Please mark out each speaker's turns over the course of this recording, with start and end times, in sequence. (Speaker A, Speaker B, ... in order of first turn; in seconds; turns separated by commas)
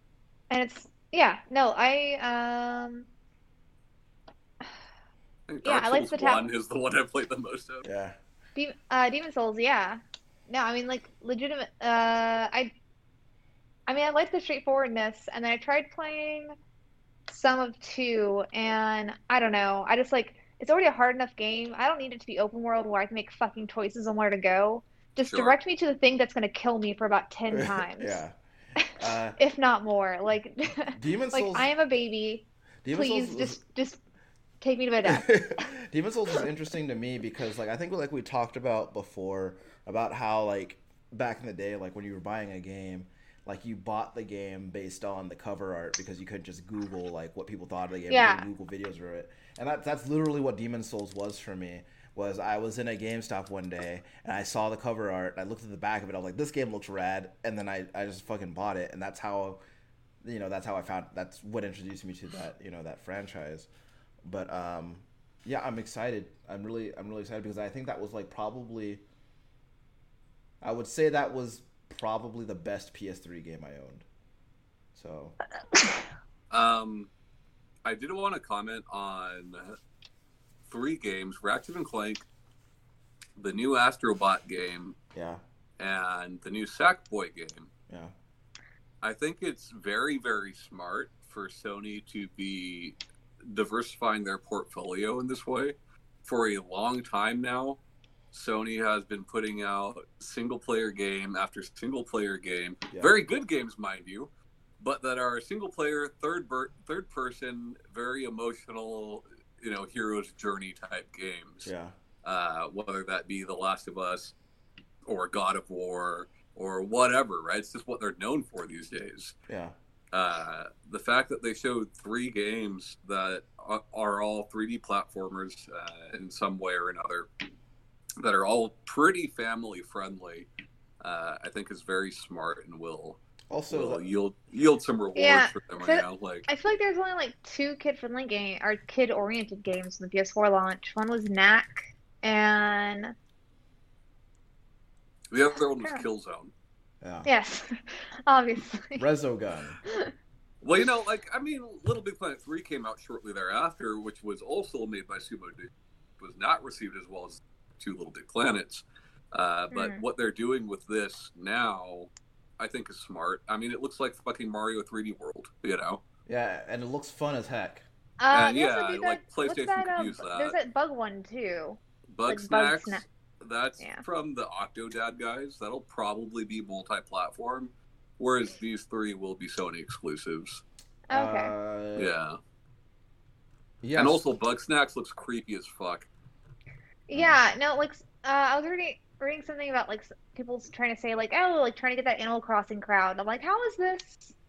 Speaker A: 0.5-3.1, Speaker B: 5.5-7.9, Speaker A: 5.6-6.5, Speaker C: 7.8-8.2, Speaker A: 8.6-12.7, Speaker A: 13.9-16.5, Speaker A: 17.3-28.2, Speaker B: 25.3-25.6, Speaker C: 27.5-28.3, Speaker C: 28.9-29.4, Speaker A: 29.4-34.0, Speaker C: 30.9-31.7, Speaker C: 32.8-33.6, Speaker A: 34.6-35.6, Speaker C: 35.0-59.6, Speaker A: 48.1-48.5, Speaker C: 60.2-63.7, Speaker C: 64.2-69.0, Speaker C: 70.6-74.0, Speaker C: 74.9-75.3, Speaker B: 76.5-77.1, Speaker B: 77.8-79.8, Speaker B: 80.7-82.2, Speaker B: 83.3-84.9, Speaker C: 85.1-85.4, Speaker B: 85.8-87.7, Speaker B: 89.0-97.8, Speaker B: 98.3-111.7, Speaker C: 111.6-111.9, Speaker B: 112.2-114.3, Speaker B: 115.0-119.3, Speaker C: 119.5-119.7, Speaker B: 120.1-127.3, Speaker B: 128.2-130.5, Speaker B: 131.0-136.5, Speaker C: 133.5-134.0, Speaker A: 135.2-143.1, Speaker B: 145.3-146.5, Speaker A: 145.8-146.0, Speaker C: 147.0-147.3, Speaker A: 147.2-149.0, Speaker C: 149.0-149.8, Speaker A: 149.8-150.1, Speaker B: 150.6-166.0, Speaker A: 159.7-160.0, Speaker C: 166.2-167.8, Speaker A: 168.2-173.0, Speaker B: 168.3-170.6, Speaker B: 172.1-180.6, Speaker A: 181.1-181.5, Speaker C: 181.1-182.1, Speaker B: 181.9-182.4, Speaker C: 183.8-184.2, Speaker B: 183.9-186.1, Speaker A: 187.1-194.3, Speaker C: 187.1-187.4